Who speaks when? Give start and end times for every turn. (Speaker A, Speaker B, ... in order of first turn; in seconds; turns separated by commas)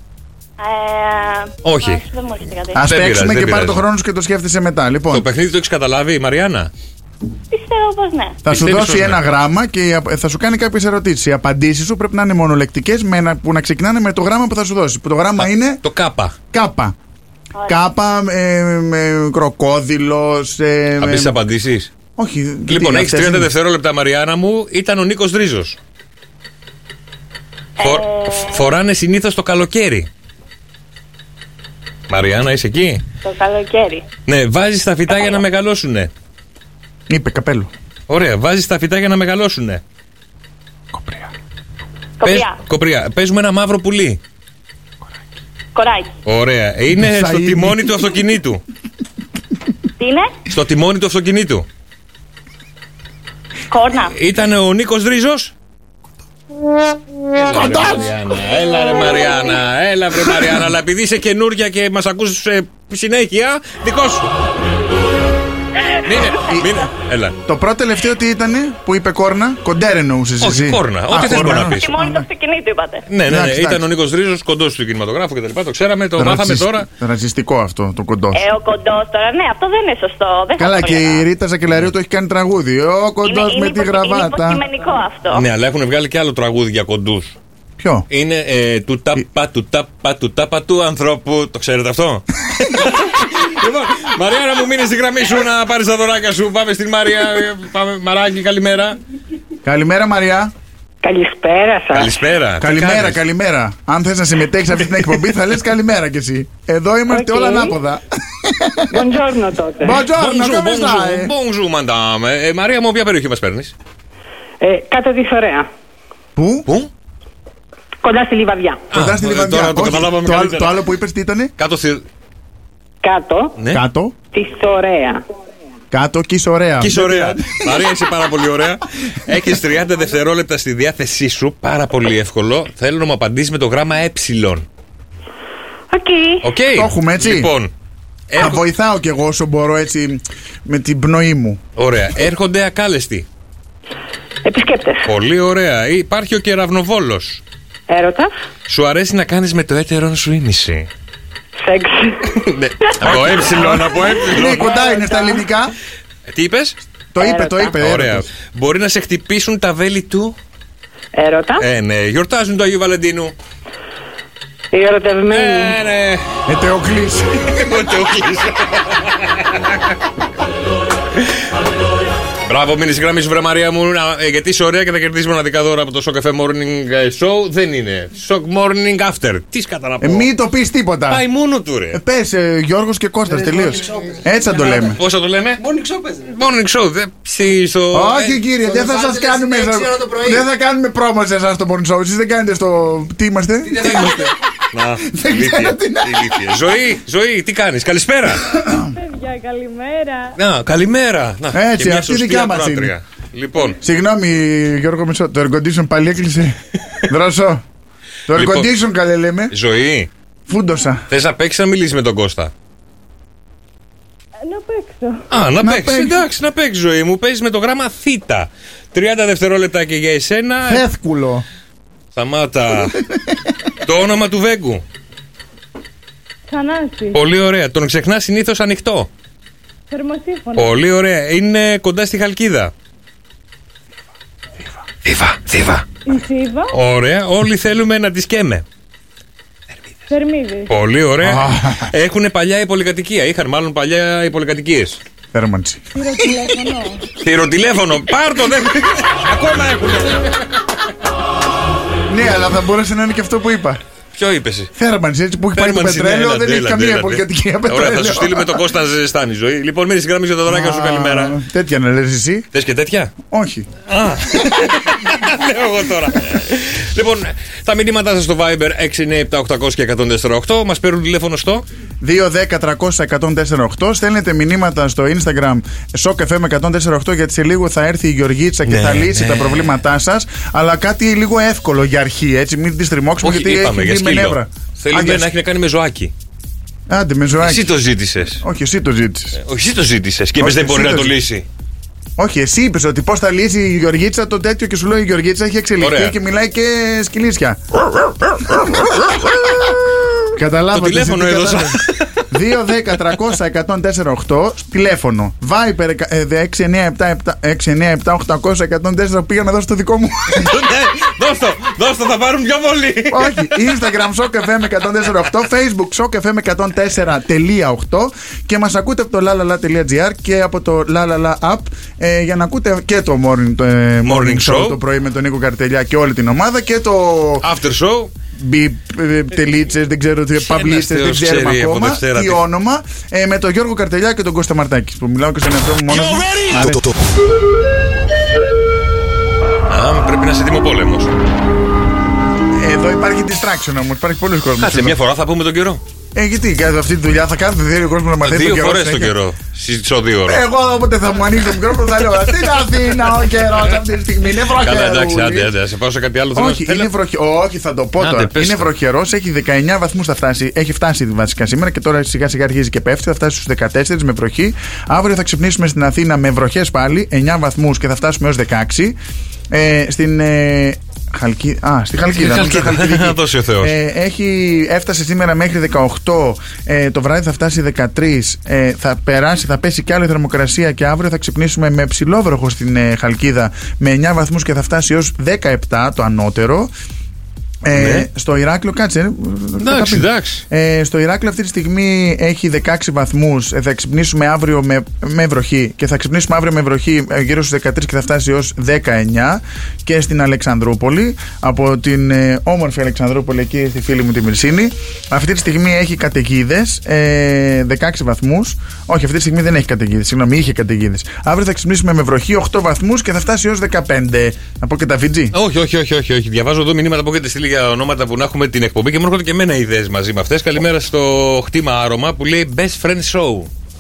Speaker A: 0.6-2.8, Speaker B: 1.6-2.0, Speaker C: 2.7-5.3, Speaker B: 2.8-3.8, Speaker B: 5.1-6.7, Speaker A: 7.5-8.4, Speaker C: 8.4-15.8, Speaker B: 8.5-9.2, Speaker B: 15.4-16.4, Speaker C: 16.5-16.9, Speaker A: 17.5-17.8, Speaker C: 17.7-21.4, Speaker B: 21.0-21.9, Speaker C: 22.2-23.5, Speaker B: 22.7-25.8, Speaker A: 27.8-28.7, Speaker B: 27.8-30.1, Speaker B: 32.1-33.0, Speaker A: 33.2-34.1, Speaker B: 34.2-36.1, Speaker A: 35.1-35.4, Speaker C: 37.1-37.7, Speaker B: 38.1-39.8, Speaker C: 40.9-41.3, Speaker A: 42.2-42.6, Speaker B: 42.2-44.2, Speaker A: 45.7-46.1, Speaker B: 46.2-48.6, Speaker C: 46.9-48.1, Speaker A: 50.0-50.3, Speaker B: 50.5-51.6, Speaker A: 53.7-54.1, Speaker B: 54.1-55.5, Speaker B: 57.4-64.3, Speaker B: 66.0-67.4, Speaker C: 66.4-66.9, Speaker C: 67.5-72.2, Speaker B: 70.4-71.9, Speaker A: 71.2-73.0, Speaker B: 73.1-76.9, Speaker C: 73.2-73.9, Speaker C: 76.2-78.4, Speaker A: 78.3-81.3, Speaker C: 80.6-84.6, Speaker A: 83.2-85.4, Speaker B: 85.3-87.3, Speaker C: 87.8-88.1, Speaker B: 88.1-99.0, Speaker C: 99.6-100.5, Speaker D: 101.0-102.1, Speaker B: 101.9-103.2, Speaker C: 102.6-109.1, Speaker D: 107.1-107.7, Speaker D: 108.9-110.0, Speaker C: 109.8-111.3, Speaker B: 110.1-113.7, Speaker D: 114.6-115.7, Speaker C: 116.4-116.7, Speaker D: 118.0-118.9, Speaker B: 118.9-120.8, Speaker C: 118.9-121.5, Speaker B: 121.6-122.1, Speaker D: 123.0-123.6, Speaker B: 123.6-123.8, Speaker C: 123.7-124.1, Speaker D: 124.3-125.2, Speaker C: 125.9-127.9, Speaker B: 126.8-134.7, Speaker D: 135.9-136.4, Speaker B: 136.4-137.7, Speaker C: 136.7-137.5, Speaker B: 138.3-138.6, Speaker C: 138.4-141.6, Speaker B: 141.8-143.2, Speaker D: 144.4-145.1, Speaker B: 145.0-147.4, Speaker D: 147.9-148.3, Speaker B: 148.7-150.9, Speaker D: 151.6-152.2, Speaker B: 152.5-154.7, Speaker C: 153.0-155.7, Speaker B: 156.3-156.8, Speaker C: 157.1-158.3, Speaker D: 157.2-157.7, Speaker B: 157.7-160.3, Speaker D: 161.1-161.6, Speaker B: 161.6-163.3, Speaker D: 164.7-165.8, Speaker B: 165.3-166.2, Speaker C: 166.5-167.6, Speaker B: 167.5-169.9, Speaker B: 172.4-180.3, Speaker C: 180.0-181.2, Speaker B: 181.1-182.0, Speaker C: 181.9-185.0, Speaker E: 183.3-184.5, Speaker B: 184.6-185.6, Speaker E: 185.6-186.3, Speaker B: 186.2-188.4, Speaker C: 187.9-194.3, Speaker E: 188.6-190.4, Speaker E: 193.7-194.1, Speaker B: 193.8-198.6, Speaker C: 195.1-196.5, Speaker C: 198.5-198.9, Speaker F: 198.7-200.4, Speaker B: 200.4-203.8, Speaker C: 201.5-202.9, Speaker C: 203.8-207.6, Speaker C: 208.3-209.5, Speaker B: 208.3-208.7, Speaker B: 209.5-210.1, Speaker C: 210.5-211.0, Speaker B: 211.1-212.5, Speaker F: 214.4-215.2, Speaker B: 215.3-220.9, Speaker C: 215.6-216.2, Speaker C: 220.6-221.4, Speaker B: 222.1-223.0, Speaker B: 223.8-224.8, Speaker F: 226.5-227.2, Speaker B: 227.1-229.1, Speaker F: 229.9-230.8, Speaker B: 230.5-232.7, Speaker B: 235.0-236.0, Speaker F: 236.1-236.7, Speaker B: 236.7-238.6, Speaker F: 240.1-240.7, Speaker B: 240.7-245.0, Speaker C: 241.2-241.9, Speaker C: 245.3-245.9, Speaker F: 245.9-247.0, Speaker B: 247.2-250.4, Speaker C: 252.1-253.8, Speaker B: 254.2-254.7, Speaker C: 254.8-258.6, Speaker B: 255.5-261.4, Speaker C: 260.5-262.5, Speaker B: 262.5-263.1, Speaker C: 263.3-263.7, Speaker B: 263.9-271.6, Speaker C: 272.0-285.3, Speaker B: 278.6-279.7, Speaker B: 283.2-286.1, Speaker C: 286.9-287.7, Speaker B: 287.4-288.4, Speaker C: 288.4-289.4, Speaker B: 289.4-291.4, Speaker C: 290.4-291.2, Speaker C: 292.2-299.1, Speaker B: 295.8-296.1, Speaker C: 300.3-310.5, Speaker B: 300.7-302.3, Speaker B: 310.3-313.6, Speaker C: 313.1-327.4, Speaker B: 324.0-324.8, Speaker B: 327.4-328.1, Speaker C: 328.4-336.9, Speaker B: 330.4-332.4, Speaker B: 335.9-336.8, Speaker B: 339.7-341.1, Speaker C: 342.6-344.9, Speaker B: 344.6-345.8, Speaker C: 346.1-349.1, Speaker B: 348.2-350.4, Speaker C: 350.3-355.5, Speaker B: 354.6-356.9, Speaker C: 356.4-369.0, Speaker B: 358.0-358.7, Speaker C: 369.5-386.7, Speaker B: 372.1-373.7, Speaker C: 387.6-415.4, Speaker B: 387.7-388.1, Speaker B: 389.6-390.4, Speaker B: 415.3-423.5